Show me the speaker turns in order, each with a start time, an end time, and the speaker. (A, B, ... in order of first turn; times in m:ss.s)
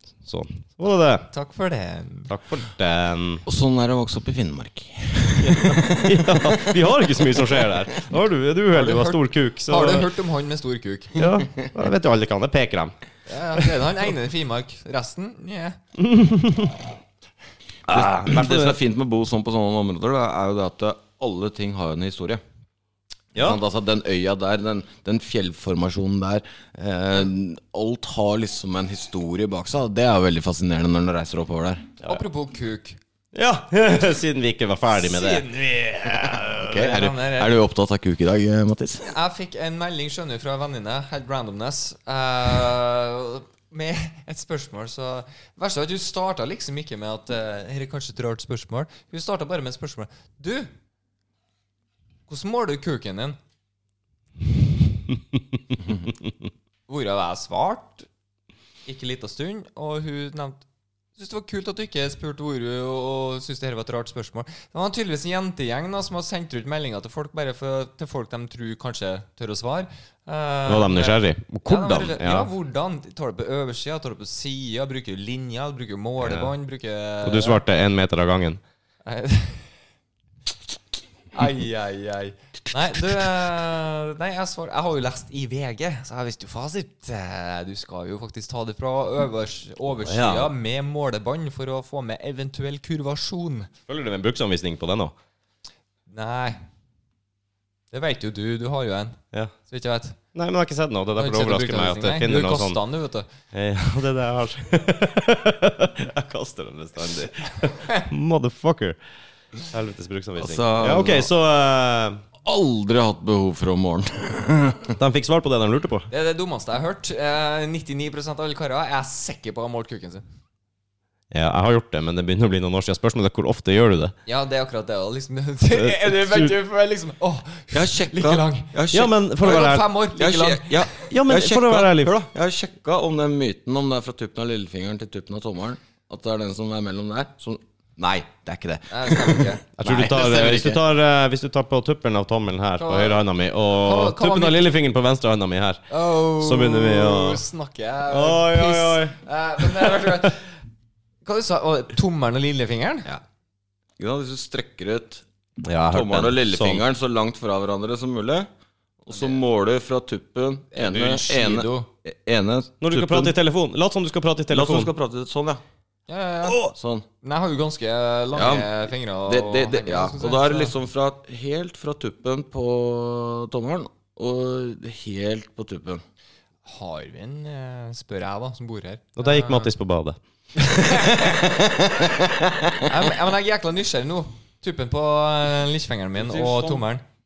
0:00.2-0:01.3 A
0:01.3-0:02.3 B
0:02.3-0:03.4 A
0:03.4-0:07.6 C
0:05.4-0:10.1 A
0:08.7-0:11.4 B
0:11.1-0:12.9 A
0:13.3-0:15.8 B
0:13.6-0:13.9 A
0:16.0-0:16.8 A
0:17.9-0:18.8 A
0:17.9-0:22.4 C
0:23.3-0:23.6 A
0:23.4-0:31.9 C
0:32.0-0:33.0 B
0:33.3-0:35.5 A
0:34.9-0:37.6 B
0:36.5-0:39.1 C
0:39.0-0:50.7 B
0:52.3-0:53.4 B
0:56.9-0:58.1 B
0:58.9-1:00.6 B
1:01.2-1:17.6 B
1:10.6-1:12.5 A
1:16.2-1:16.5 A
1:17.2-1:18.6 A
1:19.0-1:19.7 B
1:21.3-1:33.7 B
1:29.9-1:30.5 A
1:33.9-1:35.1 A
1:36.1-1:36.6 B
1:37.9-1:40.2 B
1:40.3-1:42.8 A
1:41.2-1:43.3 B
1:43.5-1:49.0 A
1:49.6-1:52.2 A
1:50.4-1:51.3 C
1:52.4-1:54.9 C
1:55.0-1:56.1 A
1:56.1-2:00.2 B
2:01.3-2:04.1 A
2:04.2-2:08.8 B
2:05.7-2:06.5 A
2:07.7-2:09.6 C
2:08.9-2:09.9 A
2:09.4-2:11.0 B
2:10.1-2:20.8 C
2:11.0-2:12.2 A
2:18.9-2:19.6 B
2:19.8-2:27.4 A
2:22.8-2:23.2 B
2:23.8-2:24.6 B
2:25.9-2:30.4 B
2:28.1-2:30.2 A
2:31.2-2:33.1 B
2:34.0-2:35.2 C
2:35.6-2:36.8 A
2:35.9-2:38.5 C
2:39.0-2:43.3 C
2:40.7-2:41.9 B
2:42.8-2:44.9 A
2:44.5-2:45.6 C
2:46.1-2:46.7 B
2:46.7-2:47.0 C
2:47.2-2:50.7 B
2:48.3-2:56.0 C
2:56.6-2:59.7 B
2:59.2-3:00.2 A
3:00.6-3:01.5 B
3:01.2-3:02.9 C
3:02.8-3:07.0 B
3:06.2-3:06.8 C